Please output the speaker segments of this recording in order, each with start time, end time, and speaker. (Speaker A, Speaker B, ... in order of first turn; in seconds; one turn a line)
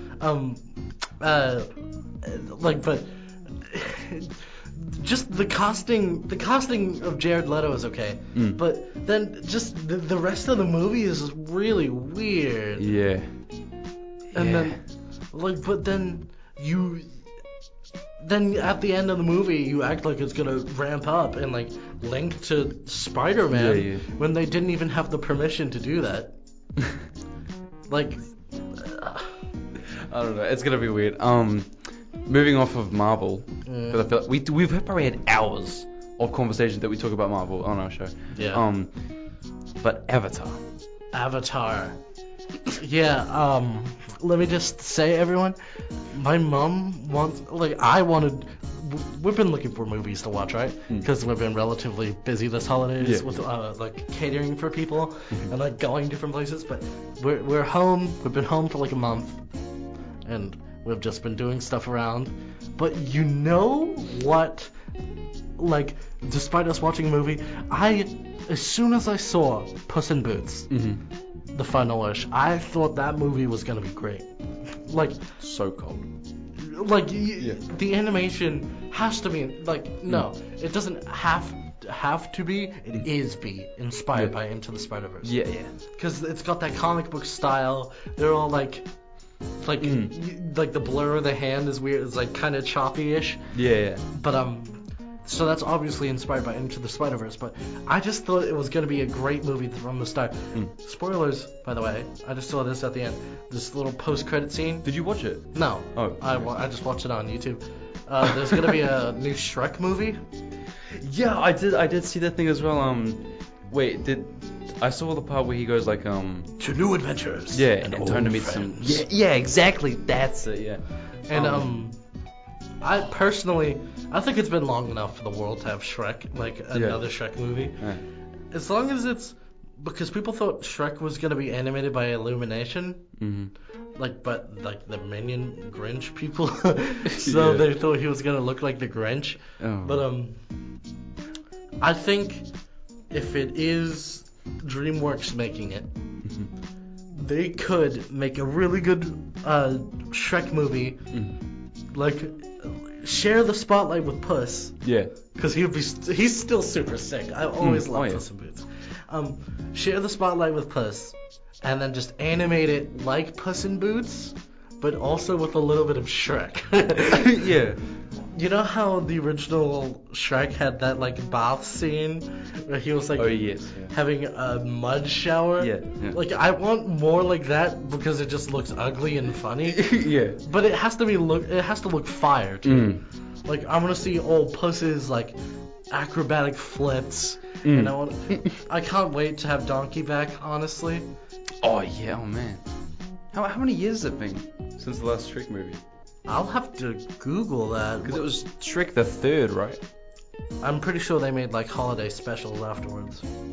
Speaker A: 0.2-12.9
Speaker B: 8.3-8.6
Speaker B: 12.8-13.5
Speaker B: 14.3-14.8
Speaker A: 14.3-17.3
Speaker A: 18.2-26.3
Speaker B: 23.5-24.0
Speaker A: 27.9-29.4
Speaker B: 29.8-40.6
Speaker A: 33.6-34.0
Speaker A: 38.3-38.6
Speaker A: 41.1-42.0
Speaker A: 42.7-59.4
Speaker B: 53.0-53.4
Speaker A: 60.2-64.7
Speaker A: 65.6-70.7
Speaker B: 70.7-71.0
Speaker A: 71.5-75.3
Speaker B: 75.4-76.1
Speaker A: 76.5-88.9
Speaker B: 85.2-85.7
Speaker A: 89.5-93.5
Speaker B: 89.8-90.1
Speaker B: 93.5-94.0
Speaker A: 94.1-104.9
Speaker B: 104.8-106.4
Speaker A: 105.5-110.2
Speaker B: 110.8-116.5
Speaker A: 116.6-119.0
Speaker B: 117.5-121.7
Speaker A: 121.3-122.0
Speaker A: 122.8-128.0
Speaker B: 126.7-127.0
Speaker B: 127.8-128.0
Speaker A: 128.5-133.2
Speaker B: 133.2-133.5
Speaker A: 133.9-140.4
Speaker B: 137.1-137.7
Speaker B: 139.6-140.0
Speaker A: 141.8-142.5
Speaker A: 143.1-145.9
Speaker B: 146.2-146.5
Speaker A: 147.1-151.1
Speaker B: 151.1-151.4
Speaker A: 151.9-167.5
Speaker B: 154.8-155.1
Speaker B: 157.6-158.2
Speaker B: 167.1-167.8
Speaker A: 168.3-185.3
Speaker B: 173.2-173.9
Speaker B: 175.6-176.2
Speaker B: 179.7-180.4
Speaker B: 182.6-183.0
Speaker A: 185.9-191.1
Speaker B: 187.6-188.5
Speaker B: 191.6-192.6
Speaker B: 193.3-195.8
Speaker A: 196.2-198.2
Speaker B: 198.0-199.8
Speaker A: 200.6-203.3